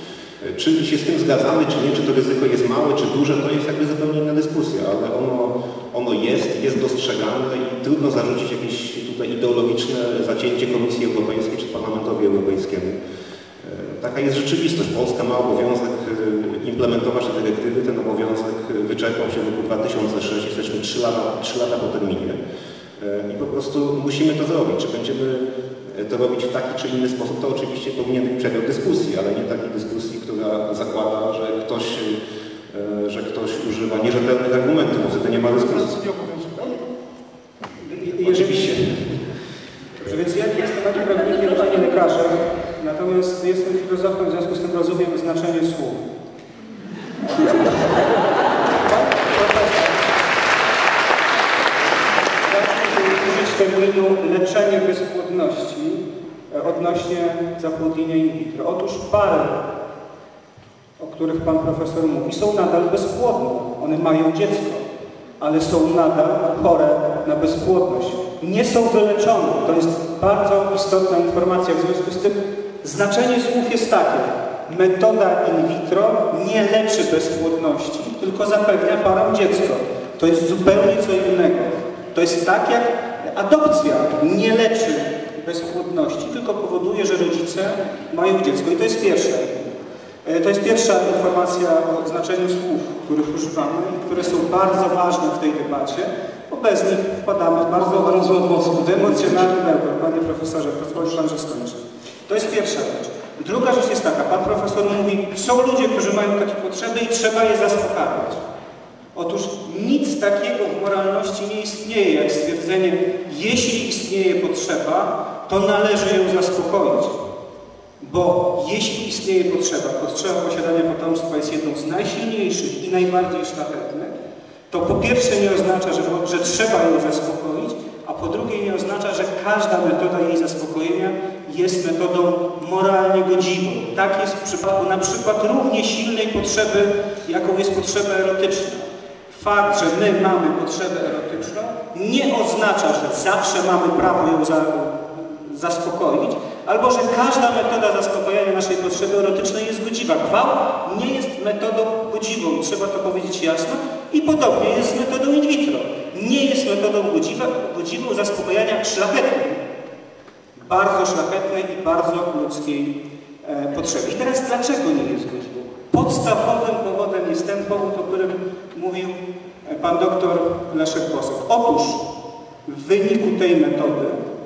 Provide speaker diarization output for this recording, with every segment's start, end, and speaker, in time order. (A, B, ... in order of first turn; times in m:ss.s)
0:00.4-0:13.0 A
0:13.6-0:22.4 A
0:23.0-0:32.2 A
0:32.7-0:35.9 A
0:35.4-0:36.8 B
0:37.8-0:39.0 C
0:38.2-0:39.2 A
0:40.0-0:46.0 C
0:47.3-0:47.9 C
0:48.8-0:50.0 C
0:52.4-0:59.6 C
1:01.0-1:04.9 C
1:05.4-1:29.7 C
1:30.2-1:48.4 C
1:37.7-1:39.6 B
1:49.1-1:57.2 C
1:58.0-2:04.2 C
2:04.7-2:39.6 C
2:40.5-2:52.0 C
2:52.6-2:54.2 C